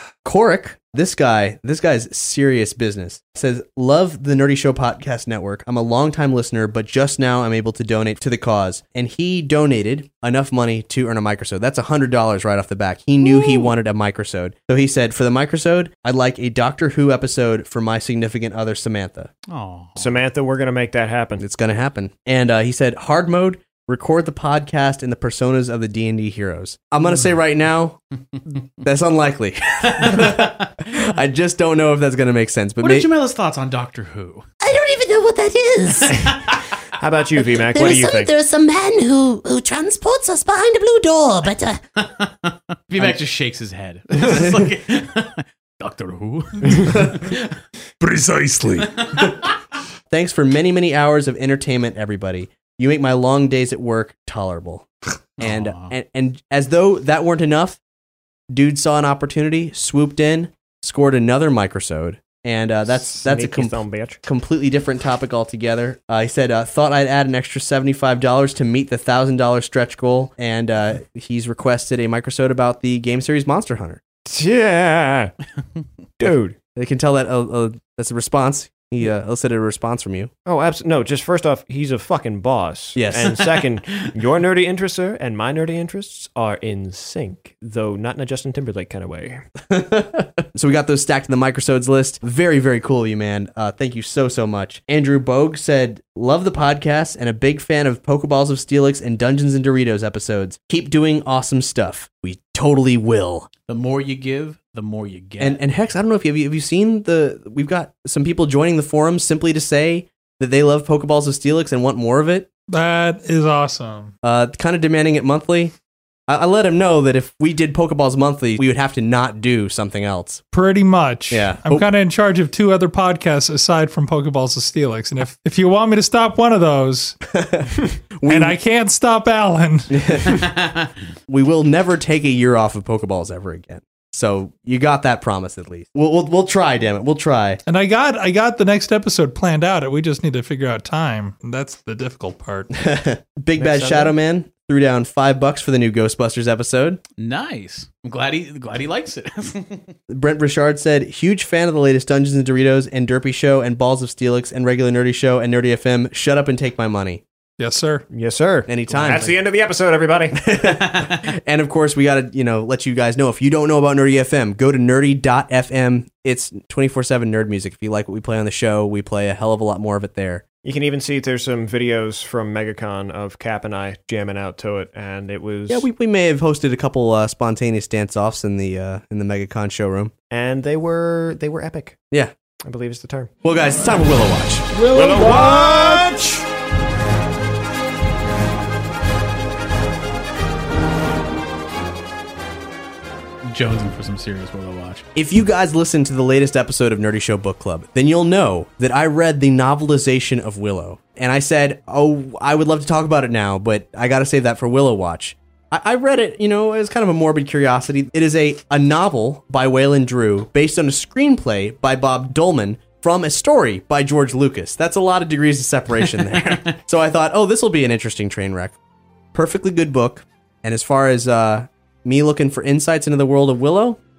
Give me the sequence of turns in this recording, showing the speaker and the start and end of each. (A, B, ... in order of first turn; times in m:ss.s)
0:00.2-0:19.3 A
0:19.5-0:20.2 B
0:20.0-0:21.4 C
0:21.4-0:28.0 A
0:28.8-0:33.1 A
0:29.9-0:30.4 B
0:32.8-0:34.5 B
0:34.6-0:36.3 D
0:37.0-0:38.3 C
0:37.8-0:41.8 D
0:42.0-0:47.5 B
0:48.0-0:49.2 E
0:49.1-0:49.5 B
0:50.1-0:57.8 A
0:55.4-0:55.9 B
0:58.5-1:14.0 A
1:02.9-1:04.2 C
1:14.3-1:15.3 C
1:16.2-1:16.6 C
1:16.8-1:20.3 A
1:20.4-1:29.5 C
1:23.0-1:23.7 A
1:29.6-1:43.5 A
1:43.7-1:45.6 B
1:45.4-1:52.5 A
1:52.7-1:54.1 E
1:54.2-1:55.8 A
1:56.3-2:00.4 A
2:00.5-2:07.2 E
2:01.3-2:01.9 A
2:07.3-2:07.7 A
2:08.2-2:08.6 A
2:08.2-2:10.4 E
2:09.9-2:10.4 A
2:10.3-2:10.9 B
2:11.3-2:17.6 A
2:17.7-2:22.7 E
2:22.8-2:27.0 A
2:23.6-2:24.2 C
2:27.2-2:29.9 B
2:30.1-2:37.2 A
2:37.6-2:38.1 E
2:38.1-2:40.5 C
2:38.7-2:39.4 A
2:40.4-2:50.4 A
2:50.6-2:55.9 C
2:55.7-3:00.1 A
3:00.3-3:02.0 C
3:02.6-3:03.3 C
3:03.4-3:06.2 A
3:04.8-3:06.4 C
3:13.4-3:15.0 B
3:15.2-3:38.8 A
3:36.1-3:36.8 B
3:39.3-3:44.0 A